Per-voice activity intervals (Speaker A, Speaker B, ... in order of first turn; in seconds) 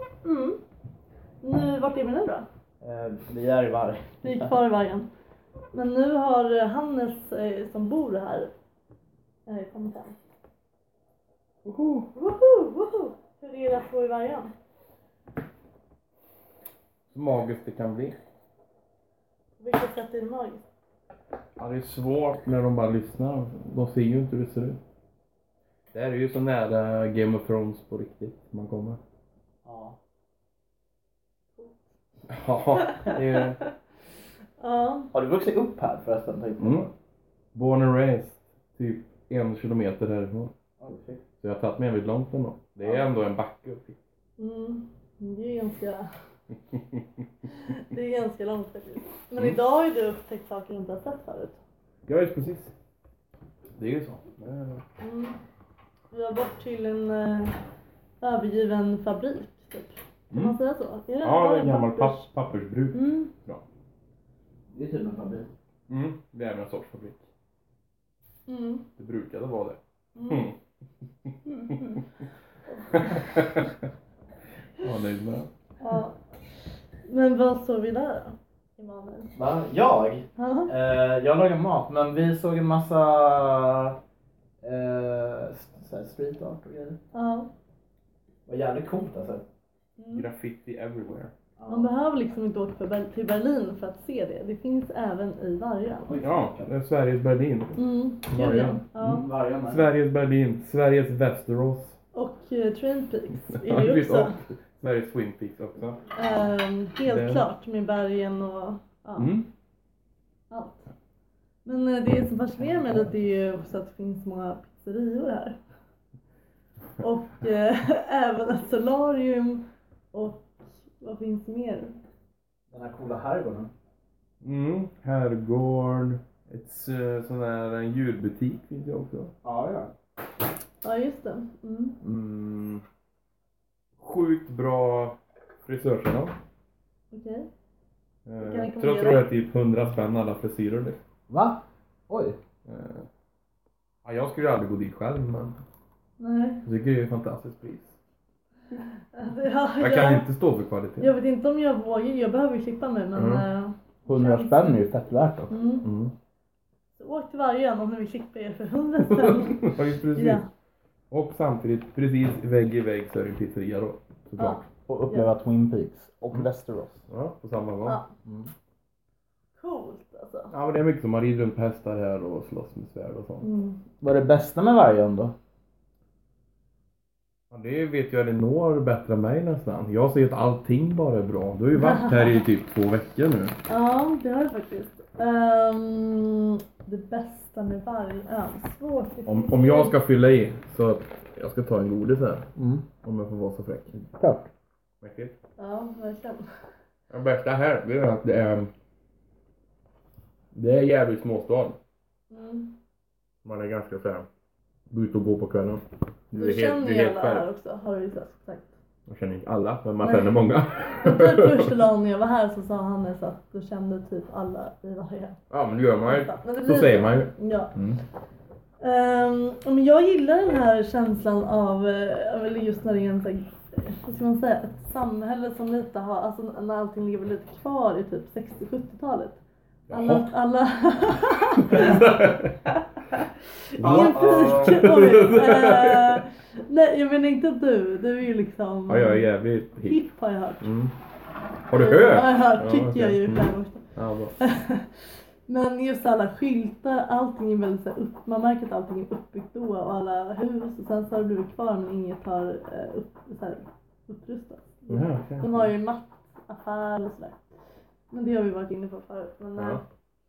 Speaker A: 0.2-0.6, 1.4-2.5, 4.2-5.1, 5.7-8.5, 9.5-10.2, 12.2-14.5, 19.6-20.6, 32.8-33.7, 34.6-35.1, 44.4-46.1, 47.5-51.6, 55.0-55.4, 56.1-57.6, 58.2-62.2, 62.9-63.3, 68.5-68.9, 70.2-70.4, 71.6-72.0, 72.8-73.6, 75.8-76.2, 77.1-79.3, 80.4-80.7, 87.1-87.5, 90.0-90.3, 91.7-96.2, 97.8-99.3, 102.1-104.3, 106.1-109.3, 110.5-110.9, 111.7-115.6, 117.0-121.9, 130.8-132.0, 137.1-137.5, 138.4-139.3, 146.2-146.6, 148.8-150.3, 151.0-154.8, 155.5-155.9, 157.0-160.4, 164.4-165.3, 169.6-170.5, 173.4-173.8, 181.7-182.4, 183.7-189.9, 195.6-196.4, 202.3-202.7, 206.3-208.7, 210.0-210.4, 211.0-215.4, 216.1-217.7, 218.8-229.4, 229.9-232.1, 233.1-239.3, 239.8-240.7, 241.7-243.9, 244.4-244.9, 245.5-257.4, 258.1-259.8
Speaker B: 2.8-4.6, 29.6-30.0, 35.1-36.9, 40.8-41.2, 64.7-65.5, 79.4-84.0, 84.6-87.0, 88.5-89.5, 91.6-91.9, 96.1-96.7, 99.0-99.9, 122.7-123.7, 129.4-129.9, 141.3-142.4, 154.1-155.6, 164.4-167.0, 168.2-168.5, 174.0-175.3, 192.6-192.9, 194.2-194.5, 233.8-234.8
Speaker C: 11.6-12.1, 17.1-18.2, 21.6-24.8, 25.9-29.0, 32.3-33.6, 36.6-36.9, 37.5-40.5, 41.4-44.0, 46.7-47.0, 52.1-52.7, 53.8-54.8, 61.2-63.6, 65.9-67.2, 69.0-70.6, 71.3-72.0, 72.9-73.7, 74.8-75.5, 90.1-91.3, 96.1-102.0, 103.5-106.0, 107.0-107.5, 109.2-109.5, 124.4-129.3, 132.0-132.8, 134.0-136.3, 138.3-141.0, 142.7-143.1, 144.1-145.6, 146.7-148.0, 149.8-151.1, 153.2-153.4, 155.8-156.2, 159.0-160.4, 161.1-164.7, 167.1-168.0, 170.5-173.5, 177.5-183.6, 189.3-192.5, 193.0-194.0, 195.0-195.3, 197.1-198.7, 200.6-201.8, 203.4-204.3, 204.9-207.5, 209.1-211.7, 215.5-218.0, 229.9-230.3, 231.7-232.5, 233.8-236.2, 238.9-240.0, 240.6-240.9, 241.7-244.3, 254.9-255.7, 259.6-259.8